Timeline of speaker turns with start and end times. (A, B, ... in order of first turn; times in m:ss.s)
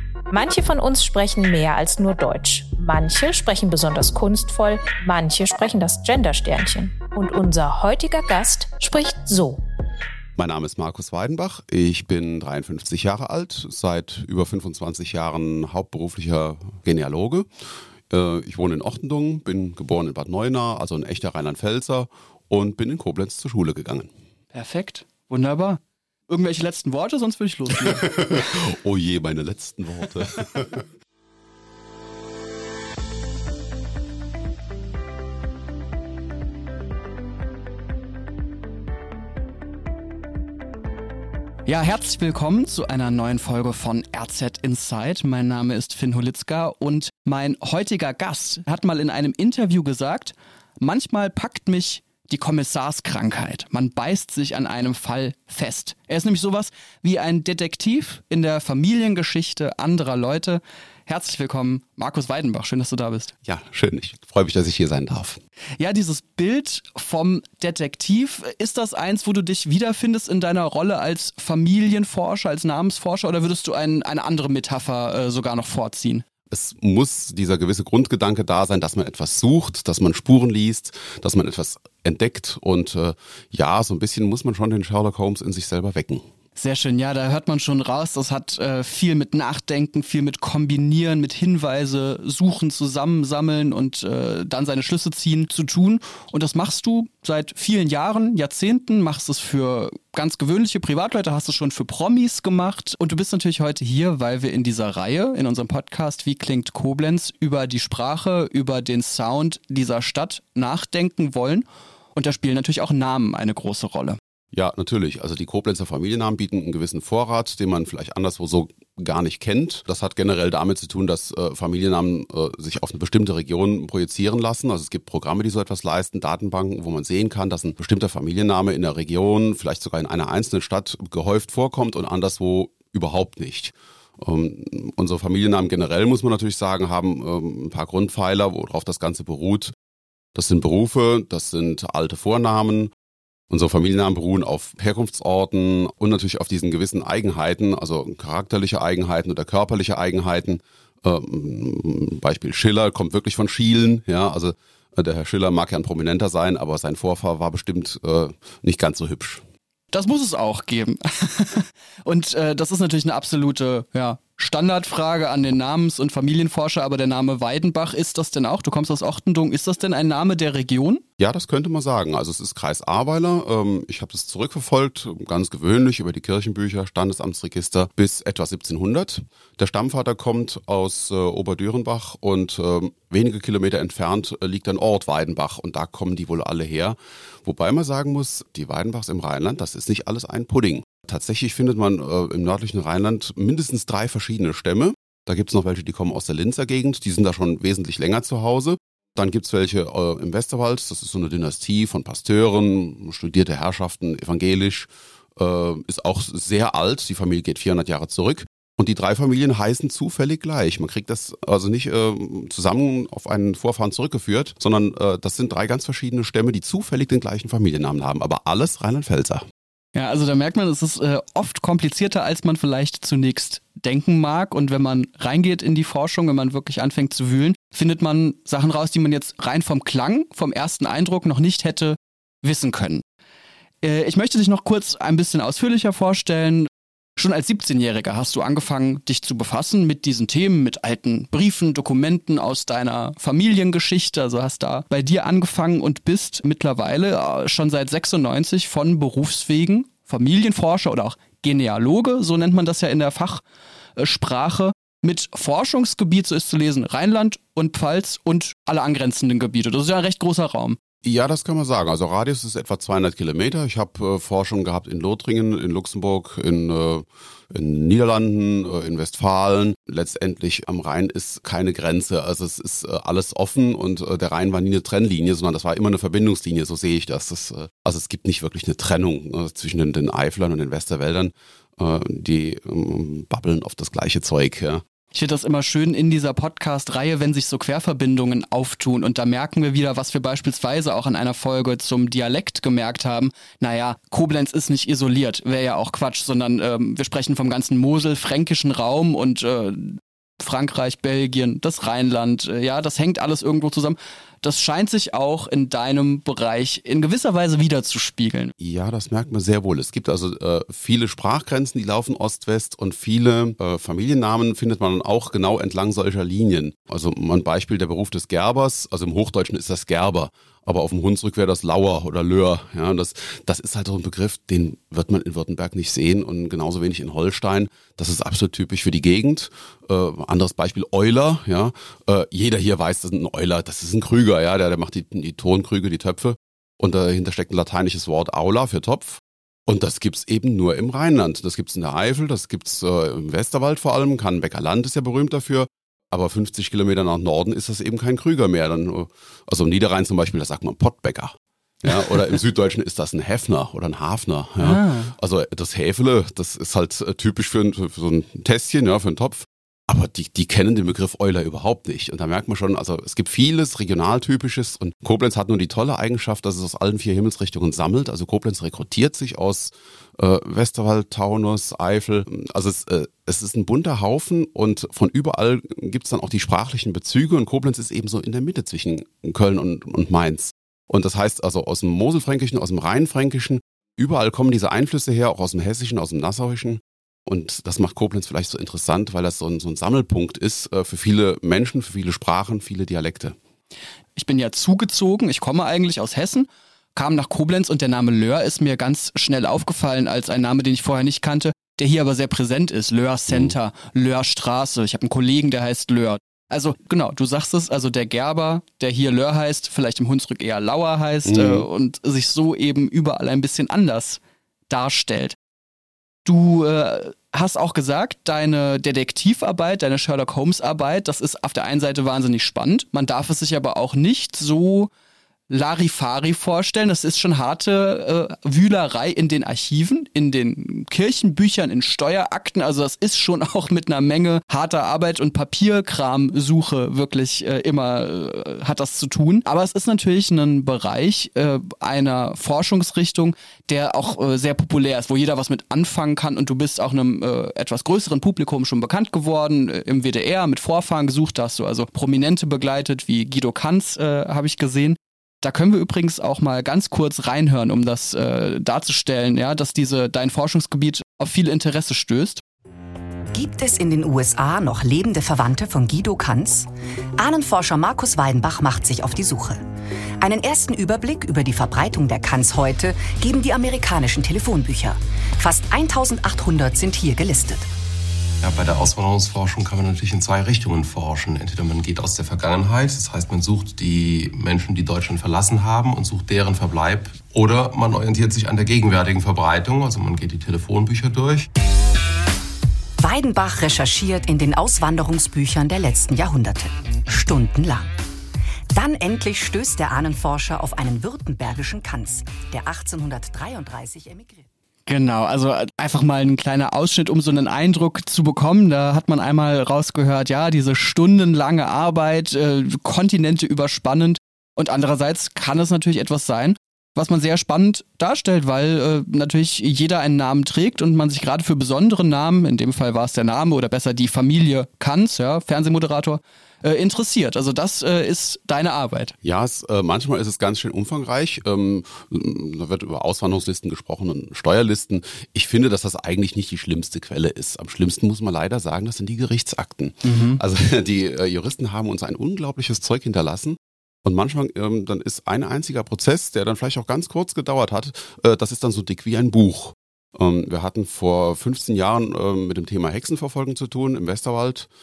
0:00.3-0:09.6 A
0:10.4-0:17.5 B
0:18.1-0:24.1 B
0:24.5-0:28.5 C
0:27.7-0:30.8 B
0:41.6-1:03.3 C
1:03.4-1:05.4 B
1:05.8-1:16.2 C
1:16.5-1:26.2 B
1:26.6-1:54.2 C
1:54.5-2:19.7 B
2:20.3-2:22.9 B
2:23.5-2:39.4 B
2:39.9-2:51.0 C
2:51.2-3:39.4 B
3:39.9-3:53.0 C
3:53.8-4:13.4 C
4:14.0-4:20.8 C
4:21.0-4:44.8 B
4:45.1-5:08.5 C
5:08.6-6:33.4 B
5:54.6-5:55.1 C
6:34.2-6:55.4 C
6:51.2-6:51.6 B
6:56.2-7:04.9 C
7:05.5-7:42.4 C
7:43.3-7:49.6 D
7:50.2-7:57.7 D
7:58.4-8:11.5 E
8:13.0-8:17.9 D
8:18.7-8:24.5 D
8:24.9-8:49.1 C
8:49.2-9:14.7 B
9:00.0-9:00.4 C